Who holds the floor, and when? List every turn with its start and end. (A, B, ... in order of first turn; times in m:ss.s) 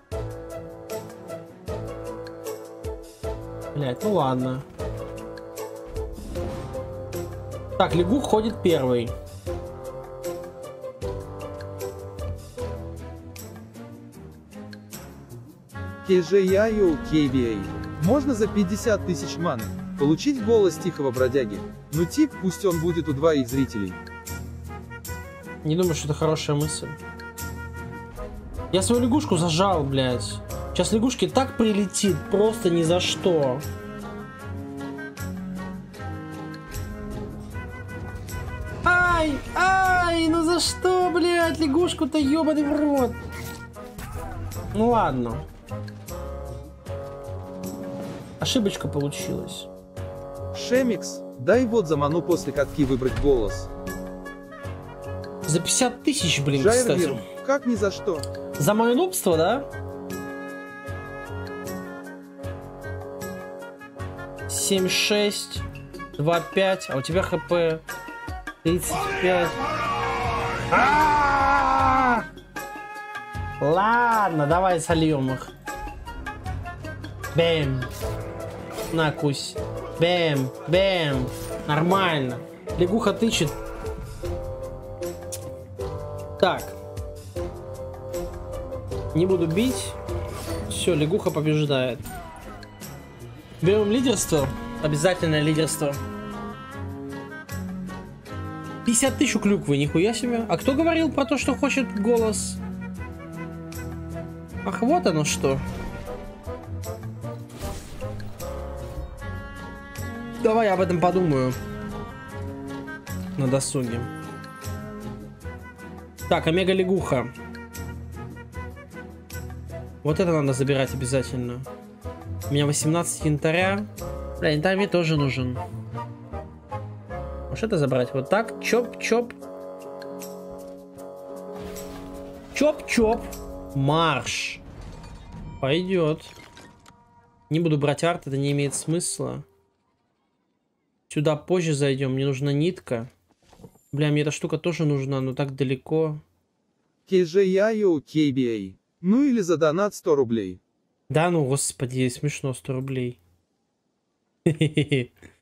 0:03.7-0:04.6 A
0:07.8-0:09.1 A
0:16.0-0:24.0 B
0:25.6-0:27.0 A
0:28.7-0:33.6 A
0:38.8-0:43.2 A
0:44.7-0:45.4 A
0:48.4-0:49.7 A
0:50.5-0:53.7 B
0:55.5-0:57.2 A
0:56.5-0:58.2 B
0:58.6-0:59.7 A
1:04.5-1:05.6 A
1:06.2-1:07.8 A
1:08.6-1:09.6 A
1:10.7-1:12.2 A
1:13.6-1:15.5 A
1:17.3-1:17.9 A
1:18.9-1:23.5 A
1:26.4-1:26.8 A
1:29.1-1:30.0 A
1:30.7-1:32.0 A
1:33.6-1:36.0 A
1:38.8-1:42.6 A
1:44.6-1:45.6 A
1:50.4-1:51.6 A
1:53.4-1:54.1 A
1:56.3-1:57.3 A
2:00.0-2:01.6 A
2:02.5-2:05.6 A
2:07.5-2:09.3 A
2:12.5-2:14.6 A
2:15.6-2:16.3 A
2:17.5-2:19.4 A
2:21.1-2:23.1 A
2:23.9-2:26.2 A
2:27.1-2:30.6 B
2:31.1-2:33.2 A
2:34.4-2:35.1 A